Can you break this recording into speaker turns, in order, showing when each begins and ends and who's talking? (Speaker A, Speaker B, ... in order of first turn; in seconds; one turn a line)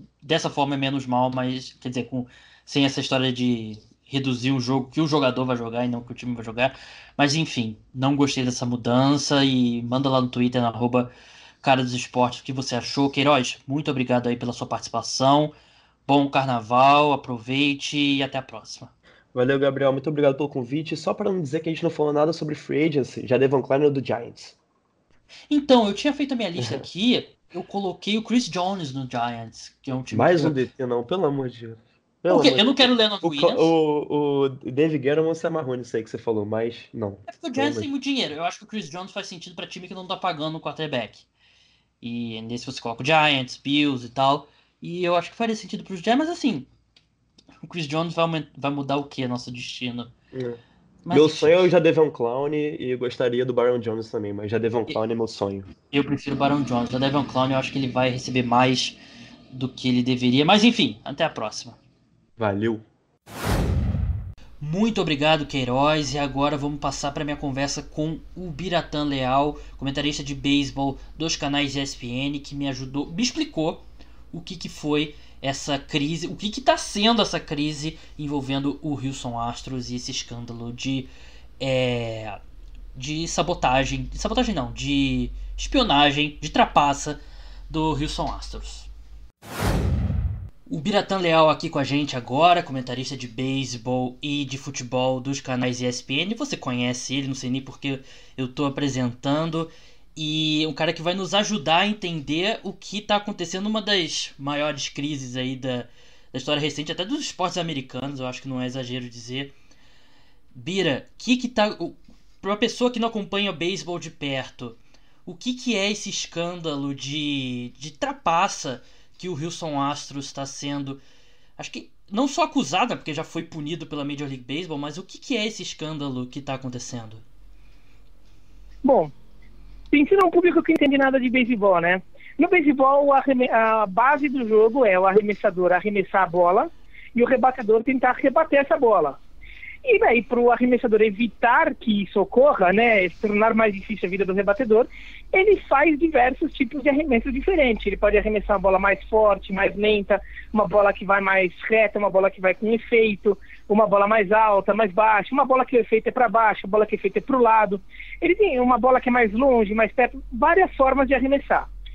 Speaker A: 0.2-11.1
Speaker A: 11.6-15.5
Speaker A: 16.1-18.9
Speaker B: 19.3-24.6
Speaker A: 25.5-30.6
Speaker B: 30.1-37.9
Speaker A: 32.3-33.7
Speaker A: 37.3-41.2
Speaker A: 42.0-46.7
Speaker A: 47.6-50.1
Speaker B: 50.3-55.7
Speaker A: 51.0-51.6
Speaker A: 55.9-59.0
Speaker A: 59.5-61.8
Speaker B: 62.4-62.8
Speaker A: 64.6-81.1
Speaker A: 81.6-82.4
Speaker A: 82.9-88.9
Speaker A: 90.7-109.5
Speaker A: 110.5-121.0
Speaker A: 121.6-127.2
Speaker C: 128.8-129.1
Speaker C: 129.9-139.2
Speaker C: 139.8-161.7